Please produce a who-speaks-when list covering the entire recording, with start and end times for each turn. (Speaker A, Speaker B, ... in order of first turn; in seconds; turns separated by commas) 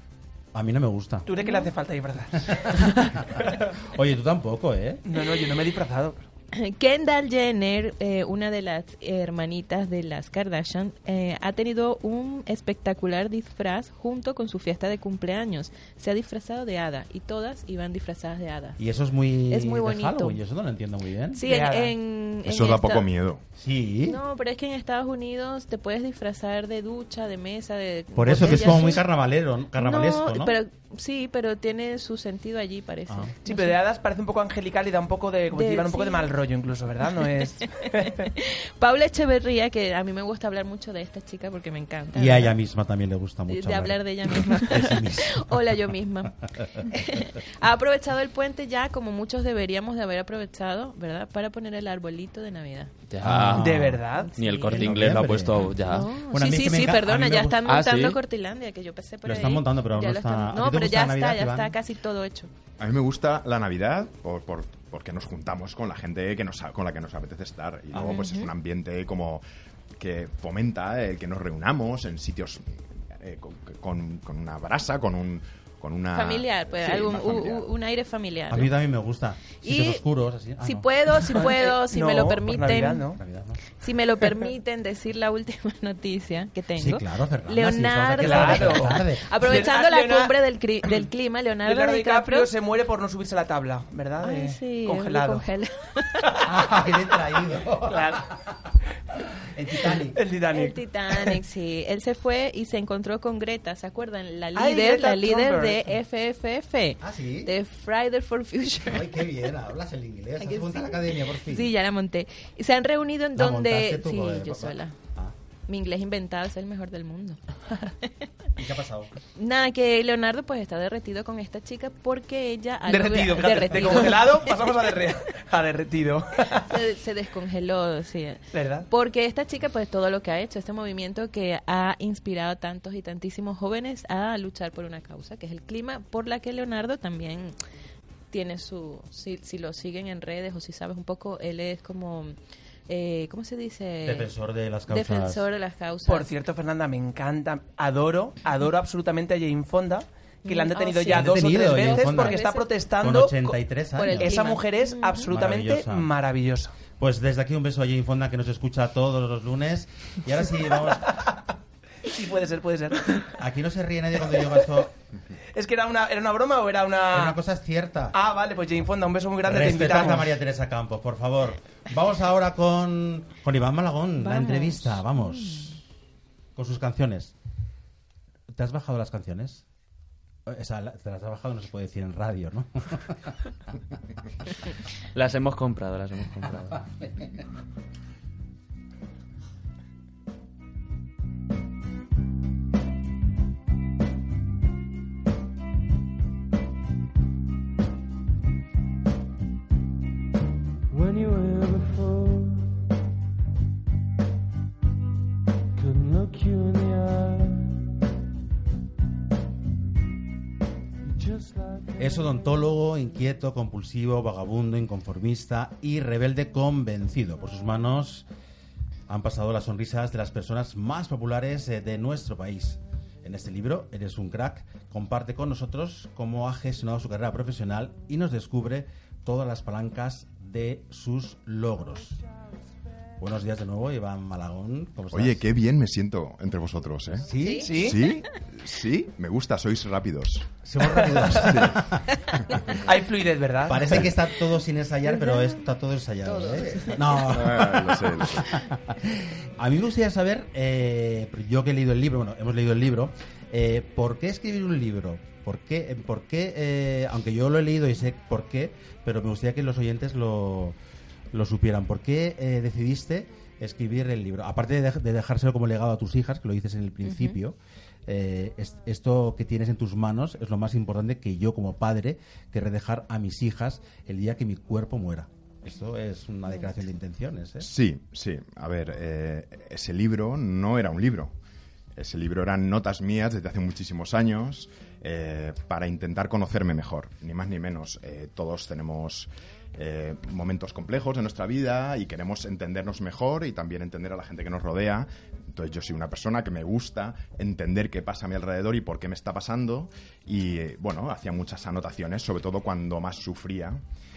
Speaker A: 0.5-1.3, Speaker B: 1.2-3.7, Speaker C: 1.4-1.7, Speaker A: 2.4-5.0, Speaker B: 5.0-6.2, Speaker C: 6.5-18.8, Speaker A: 18.8-21.4, Speaker C: 19.5-20.4, Speaker C: 21.3-23.1, Speaker B: 21.4-21.9, Speaker D: 22.4-23.4, Speaker A: 23.6-24.2, Speaker C: 24.1-29.0, Speaker A: 28.1-30.6, Speaker C: 29.8-33.8, Speaker A: 33.1-33.3, Speaker B: 33.4-38.3, Speaker C: 35.5-36.3, Speaker C: 37.8-42.5, Speaker A: 42.1-45.8, Speaker C: 43.5-52.9, Speaker A: 46.6-46.9, Speaker E: 53.1-53.8, Speaker A: 53.2-54.0, Speaker B: 53.5-54.3, Speaker C: 54.1-55.1, Speaker E: 54.4-56.1, Speaker A: 54.6-57.8, Speaker C: 55.8-62.5, Speaker E: 57.6-58.2, Speaker A: 59.2-61.7, Speaker D: 62.8-69.4, Speaker A: 67.9-68.2, Speaker C: 68.0-68.5, Speaker D: 70.0-77.7, Speaker C: 76.1-78.7, Speaker A: 78.5-80.9, Speaker C: 79.6-80.0, Speaker C: 80.6-83.1, Speaker B: 81.2-83.2, Speaker A: 83.1-83.6, Speaker C: 83.8-92.5, Speaker A: 86.8-89.6, Speaker B: 88.2-91.1, Speaker B: 91.6-95.5, Speaker C: 94.2-96.4, Speaker A: 96.4-98.6, Speaker B: 97.8-98.3, Speaker A: 99.3-100.2, Speaker B: 99.8-101.4, Speaker C: 100.5-109.2, Speaker B: 104.5-106.0, Speaker A: 107.0-107.5, Speaker A: 108.8-111.7, Speaker C: 110.4-114.9, Speaker A: 113.3-115.3, Speaker C: 115.7-118.3, Speaker A: 118.5-119.1, Speaker C: 119.3-124.8, Speaker B: 122.8-126.8, Speaker C: 126.7-137.5, Speaker B: 128.5-128.9, Speaker C: 138.3-142.3, Speaker C: 142.9-144.3, Speaker A: 144.0-145.4, Speaker C: 144.9-146.3, Speaker B: 146.0-153.6, Speaker C: 150.4-152.7, Speaker A: 151.1-152.4, Speaker A: 153.0-154.4, Speaker C: 154.0-155.3, Speaker B: 154.1-156.7, Speaker A: 155.3-156.1, Speaker A: 157.0-161.3, Speaker B: 162.0-163.4, Speaker A: 163.4-164.9, Speaker B: 164.3-164.7, Speaker B: 165.5-167.4, Speaker A: 167.1-168.2, Speaker B: 168.1-170.3, Speaker A: 169.4-175.8, Speaker C: 174.2-175.6, Speaker A: 176.6-177.3, Speaker A: 178.5-179.6, Speaker A: 180.4-183.3, Speaker E: 185.1-186.8, Speaker F: 200.9-202.7, Speaker F: 205.8-207.8, Speaker F: 211.1-212.5, Speaker A: 212.0-218.3, Speaker A: 219.1-232.2, Speaker A: 233.2-235.4, Speaker D: 235.1-240.6, Speaker A: 237.2-237.8, Speaker C: 237.4-238.1, Speaker B: 237.6-238.0, Speaker A: 240.6-242.2, Speaker D: 241.4-241.9, Speaker B: 242.8-244.1, Speaker A: 243.7-260.8, Speaker C: 245.1-245.6, Speaker C: 246.3-247.2, Speaker D: 247.3-248.6, Speaker A: 261.3-277.7, Speaker C: 267.0-267.4, Speaker D: 277.6-281.3, Speaker D: 281.9-303.8